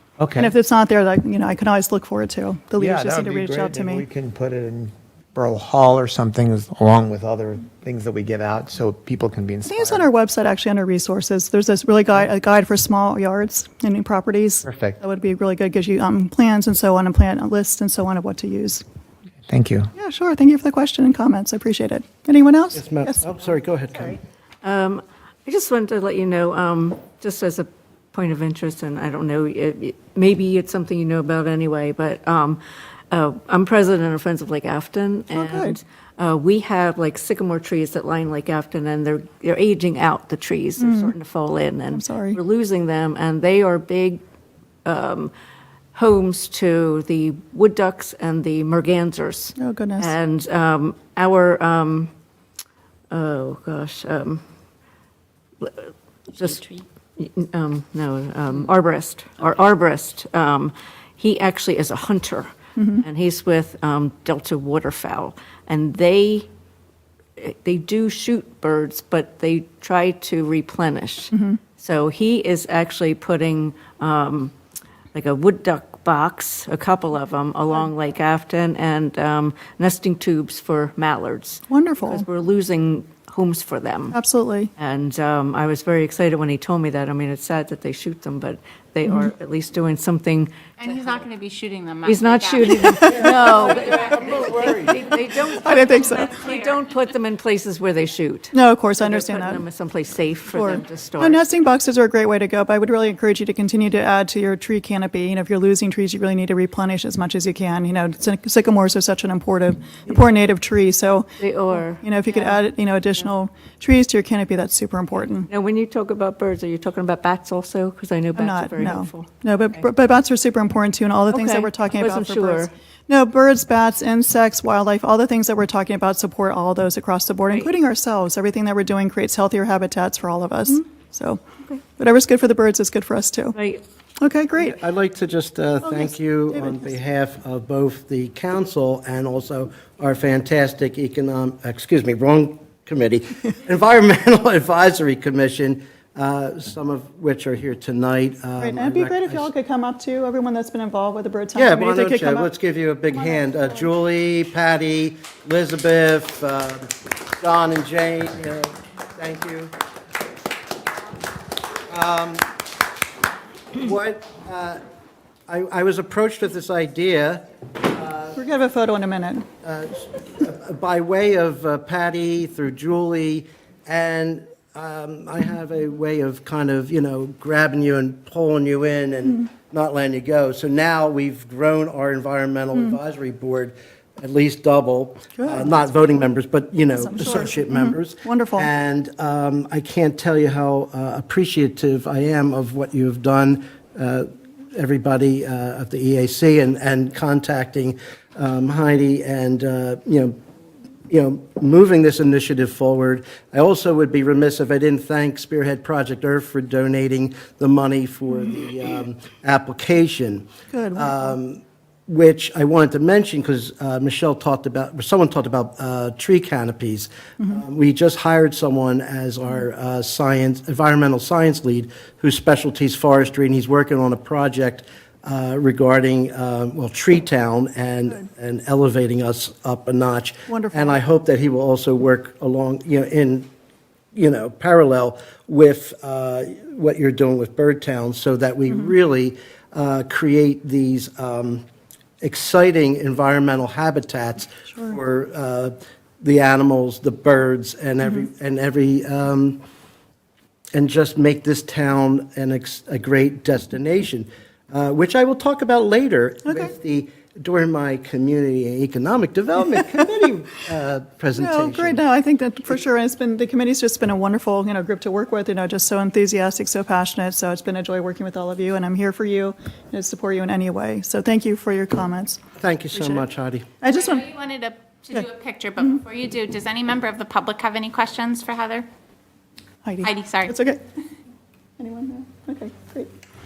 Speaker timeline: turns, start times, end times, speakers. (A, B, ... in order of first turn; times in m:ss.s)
0:00.2-0:00.5 A
0:00.4-0:04.0 B
0:02.8-0:10.0 A
0:09.7-0:18.8 B
0:14.7-0:15.0 A
0:19.5-0:19.9 A
0:20.0-0:23.2 B
0:22.8-0:24.2 C
0:24.6-0:44.2 D
0:35.3-0:35.8 B
0:40.8-0:41.1 B
0:41.9-0:42.4 B
0:44.8-0:45.3 D
0:45.9-0:52.1 D
0:49.6-0:50.1 B
0:53.1-0:54.4 D
0:55.6-1:06.5 D
1:02.8-1:03.0 B
1:07.4-1:14.5 D
1:11.3-1:11.6 B
1:15.1-1:24.2 D
1:21.7-1:22.2 B
1:24.1-1:24.7 B
1:24.8-1:31.2 D
1:30.8-1:32.8 E
1:32.0-1:41.4 D
1:32.6-1:33.4 B
1:33.2-1:34.9 C
1:35.5-1:36.4 B
1:38.5-1:39.6 B
1:40.5-1:55.5 B
1:51.4-1:52.6 D
1:55.5-1:59.3 D
1:58.4-2:13.6 B
2:01.3-2:02.7 D
2:13.6-2:13.8 D
2:14.2-2:14.8 B
2:14.6-2:29.5 C
2:15.8-2:16.9 B
2:28.6-2:32.5 B
2:31.6-2:39.7 C
2:33.1-2:33.9 B
2:41.9-2:42.5 C
2:43.7-2:44.8 C
2:45.5-2:48.4 C
2:48.4-2:49.5 B
2:49.6-3:20.4 C
3:05.4-3:05.9 B
3:06.9-3:08.7 B
3:21.1-3:53.5 C
3:30.7-3:31.4 B
3:50.5-3:51.0 B
3:54.2-4:01.6 C
4:02.2-4:09.6 C
4:04.7-4:05.0 B
4:10.7-4:22.0 C
4:16.5-4:16.7 B
4:21.4-4:32.4 B
4:32.6-4:33.7 C
4:32.9-4:33.2 B
4:33.8-4:34.3 B
4:34.0-4:38.9 E
4:39.8-4:40.8 B
4:40.0-4:40.5 E
4:41.8-4:43.1 B